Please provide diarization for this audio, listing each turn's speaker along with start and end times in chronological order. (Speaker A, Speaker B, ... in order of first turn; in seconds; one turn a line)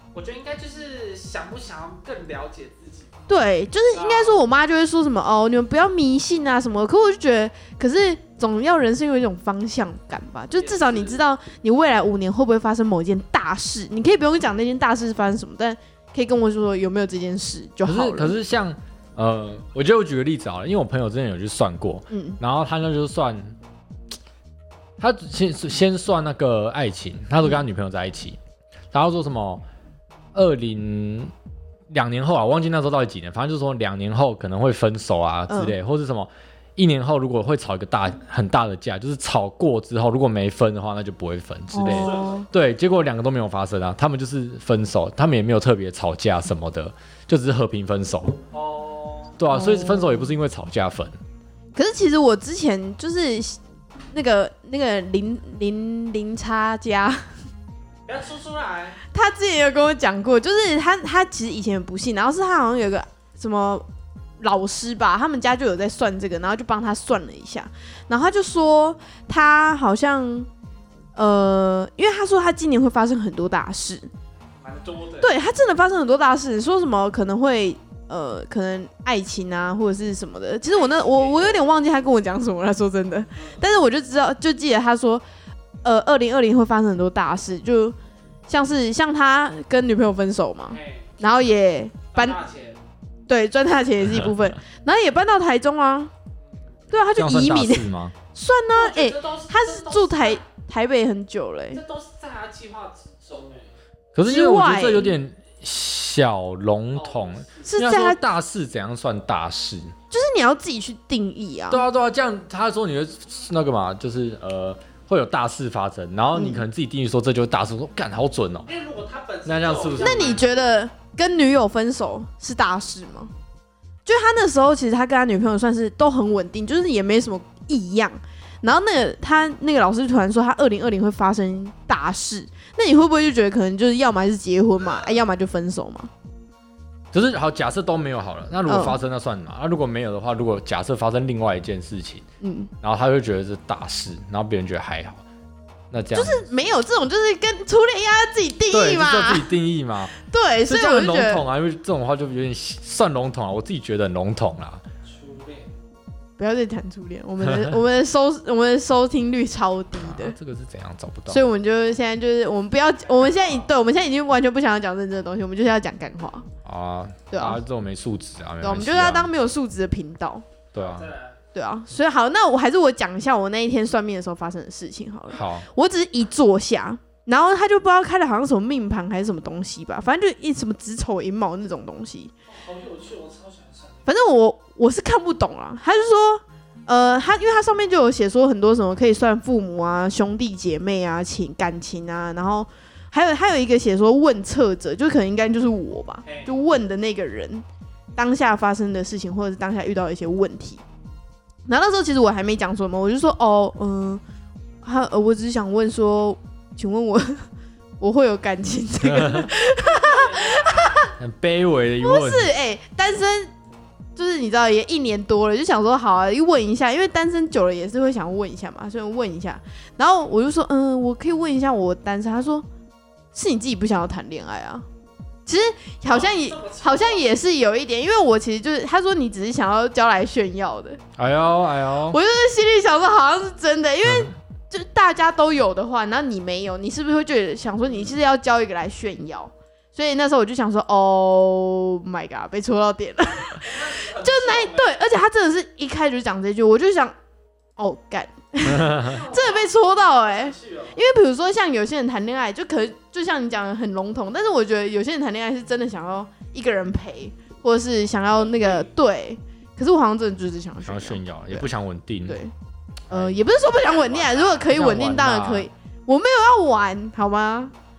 Speaker A: 0.1-3.2
Speaker B: 3.3-18.4
Speaker A: 3.9-4.4
Speaker A: 10.6-11.2
Speaker C: 17.9-23.6
Speaker B: 22.1-22.4
Speaker C: 25.0-28.4
Speaker C: 28.9-29.6
Speaker C: 30.4-31.3
Speaker C: 31.9-48.4
Speaker B: 35.5-35.8
Speaker B: 41.7-42.5
Speaker A: 41.8-42.5
Speaker A: 48.5-49.4
Speaker C: 49.4-51.2
Speaker B: 49.5-50.3
Speaker B: 51.8-53.6
Speaker B: 54.1-57.3
Speaker A: 58.1-59.0
Speaker B: 59.1-63.9
Speaker B: 64.4-70.5
Speaker B: 71.2-74.1
Speaker A: 74.6-75.3
Speaker B: 75.2-85.2
Speaker A: 80.7-81.7
Speaker A: 83.4-83.6
Speaker B: 85.8-88.0
Speaker B: 88.5-92.4
Speaker A: 90.7-91.1
Speaker A: 92.1-92.8
Speaker B: 93.3-96.1
Speaker A: 96.4-96.8
Speaker B: 96.9-101.8
Speaker C: 97.1-98.2
Speaker A: 98.8-100.4
Speaker A: 101.7-103.7
Speaker C: 104.1-109.9
Speaker B: 104.2-105.2
Speaker A: 107.0-107.9
Speaker B: 107.7-108.2
Speaker B: 110.1-111.8
Speaker C: 111.7-118.7
Speaker B: 116.3-116.6
Speaker A: 118.7-120.7
Speaker C: 119.5-120.4
Speaker B: 120.0-123.3
Speaker B: 124.1-136.1
Speaker C: 137.1-142.2
Speaker B: 138.7-139.0
Speaker B: 142.4-142.7
Speaker C: 142.8-145.2
Speaker C: 145.9-146.6
Speaker B: 146.1-149.5
Speaker C: 148.7-150.1
Speaker B: 150.2-151.4
Speaker C: 150.7-154.8
Speaker A: 155.0-155.7
Speaker B: 156.4-160.4
Speaker C: 157.5-157.8
Speaker C: 159.9-161.4
Speaker B: 161.3-166.5
Speaker A: 163.1-163.7
Speaker C: 166.7-169.3
Speaker B: 167.3-167.6
Speaker B: 168.6-170.4
Speaker C: 170.7-171.1
Speaker A: 170.8-171.4
Speaker B: 171.6-182.3
Speaker C: 175.3-175.7
Speaker A: 182.5-184.1
Speaker B: 184.1-197.7
Speaker A: 196.2-196.5
Speaker B: 198.2-200.8
Speaker B: 201.7-204.2
Speaker B: 204.8-207.4
Speaker B: 208.0-211.1
Speaker C: 209.0-209.5
Speaker A: 209.8-211.0
Speaker C: 211.2-212.5
Speaker B: 212.0-213.5
Speaker B: 214.2-222.7
Speaker B: 223.3-224.8
Speaker B: 225.5-231.0
Speaker A: 226.1-227.3
Speaker C: 231.2-232.2
Speaker B: 232.1-247.2
Speaker C: 234.1-234.3
Speaker A: 243.4-245.0
Speaker B: 247.8-261.7
Speaker C: 248.7-249.1
Speaker A: 248.9-251.0
Speaker A: 258.3-258.9
Speaker C: 260.9-262.4
Speaker B: 262.3-262.5
Speaker C: 263.1-263.4
Speaker B: 263.1-267.7
Speaker A: 263.5-264.7
Speaker C: 264.7-265.7